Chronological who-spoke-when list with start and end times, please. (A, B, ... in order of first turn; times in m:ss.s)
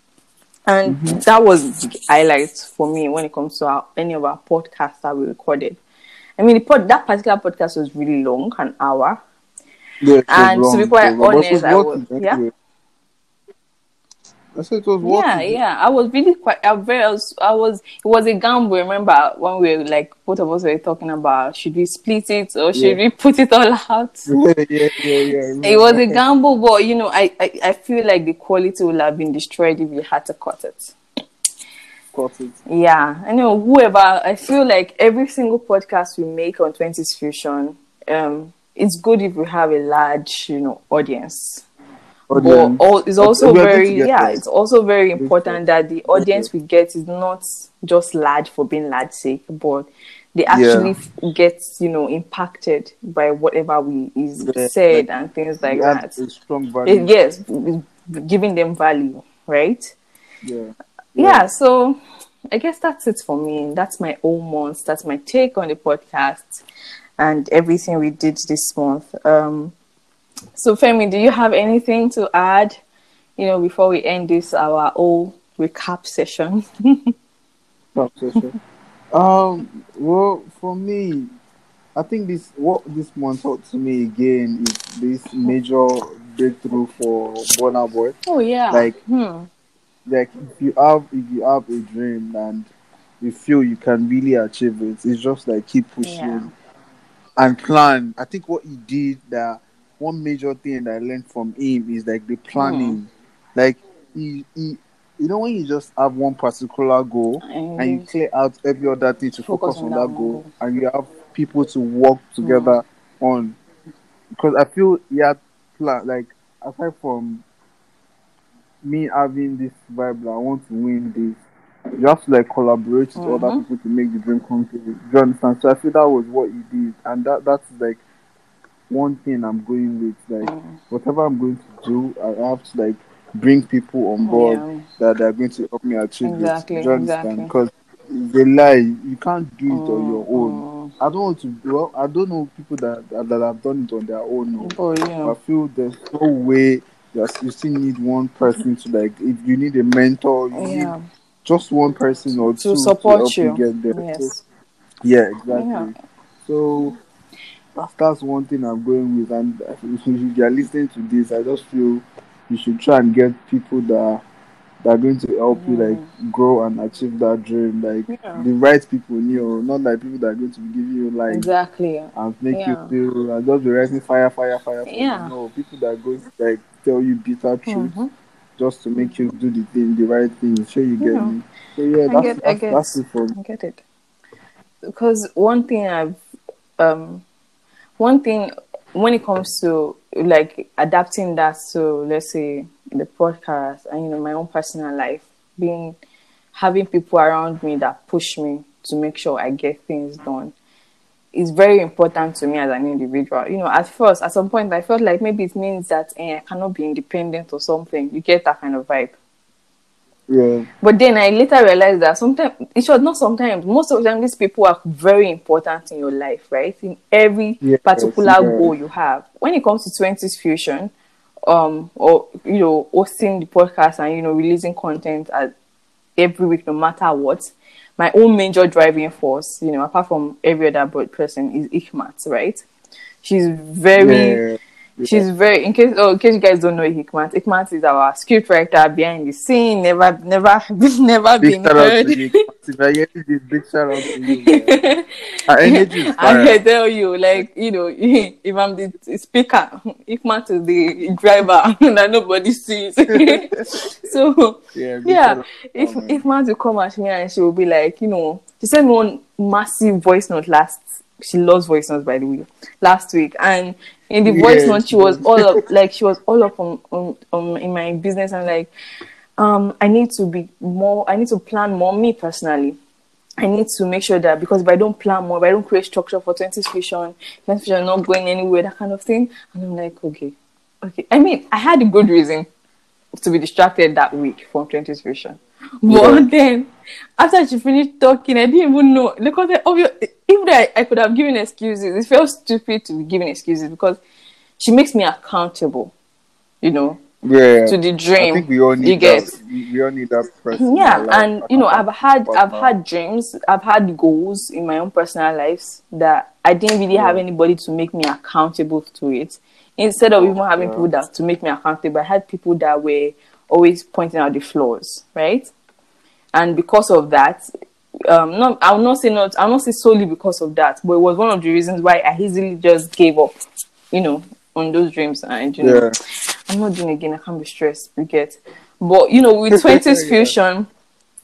0:00.7-0:05.8 A
0:00.8-0:01.2 B
0:06.4-0:09.2 A
0:10.0-0:12.5 B
0:10.3-0:12.4 A
0:14.5-0:15.6 B
0:15.0-0:24.3 A
0:22.7-0:23.0 B
0:24.3-0:26.2 B
0:25.6-0:31.0 A
0:32.1-0:32.6 B
0:32.7-0:41.6 A
0:42.3-0:44.4 B
0:42.3-0:56.2 A
0:45.2-0:45.6 B
0:46.1-0:46.5 B
0:50.5-0:50.9 B
0:54.4-0:55.0 B
0:55.6-0:57.1 B
0:56.8-1:00.0 A
1:00.4-1:01.4 B
1:01.2-1:02.0 A
1:02.5-1:06.6 A
1:07.2-1:09.7 A
1:10.5-1:12.8 A
1:13.4-1:17.0 A
1:17.9-1:18.5 B
1:19.1-1:21.3 B
1:22.0-1:28.2 B
1:28.2-1:29.5 A
1:28.7-1:28.9 B
1:30.0-1:32.7 B
1:33.2-1:36.5 B
1:36.0-1:36.5 A
1:37.4-1:53.6 B
1:42.5-1:43.0 A
1:47.4-1:48.1 A
1:49.4-1:50.5 A
1:52.4-1:52.8 A
1:54.4-1:57.4 B
1:58.8-2:01.4 B
2:02.0-2:08.0 B
2:03.2-2:03.6 A
2:08.9-2:30.9 B
2:10.4-2:10.8 A
2:14.2-2:14.8 A
2:16.2-2:17.5 A
2:19.7-2:20.9 A
2:24.6-2:25.4 A
2:30.5-2:31.0 A
2:31.4-2:34.3 B
2:32.6-2:34.4 A
2:35.0-2:35.9 B
2:35.5-2:35.9 A
2:36.4-2:37.0 B
2:37.7-2:44.2 B
2:44.8-2:51.5 B
2:45.5-2:46.1 A
2:48.1-2:48.4 A
2:51.3-2:52.9 A
2:52.1-2:57.9 B
2:54.8-2:55.3 A
2:57.7-2:58.1 A
2:58.6-3:03.4 B
3:01.0-3:01.4 A
3:02.1-3:03.8 A
3:04.8-3:06.2 A
3:06.8-3:07.2 A
3:08.0-3:16.0 A
3:16.5-3:20.5 A
3:21.3-3:29.2 A
3:30.3-3:30.7 B
3:30.8-3:40.9 A
3:37.6-3:38.7 B
3:41.5-3:45.5 A
3:46.2-3:52.6 A
3:53.2-3:54.4 A
3:54.0-3:55.2 B
3:55.0-4:02.4 A
4:01.4-4:04.9 B
4:04.5-4:05.0 A
4:05.5-4:06.6 B
4:05.7-4:28.7 A
4:13.1-4:13.6 B
4:14.7-4:16.2 B
4:24.2-4:25.5 B
4:29.4-4:32.8 A
4:33.4-4:42.5 A
4:43.2-4:54.0 A
4:45.9-4:46.2 B
4:54.6-4:55.9 A
4:56.6-4:57.0 A
4:57.2-5:02.7 B
4:57.7-4:59.3 A
5:00.5-5:15.5 A
5:06.9-5:07.2 B
5:10.2-5:10.9 B
5:16.3-5:17.4 A
5:18.1-5:23.3 A
5:23.9-5:25.9 A
5:25.6-5:25.9 B
5:26.5-5:30.7 A
5:29.5-5:30.3 B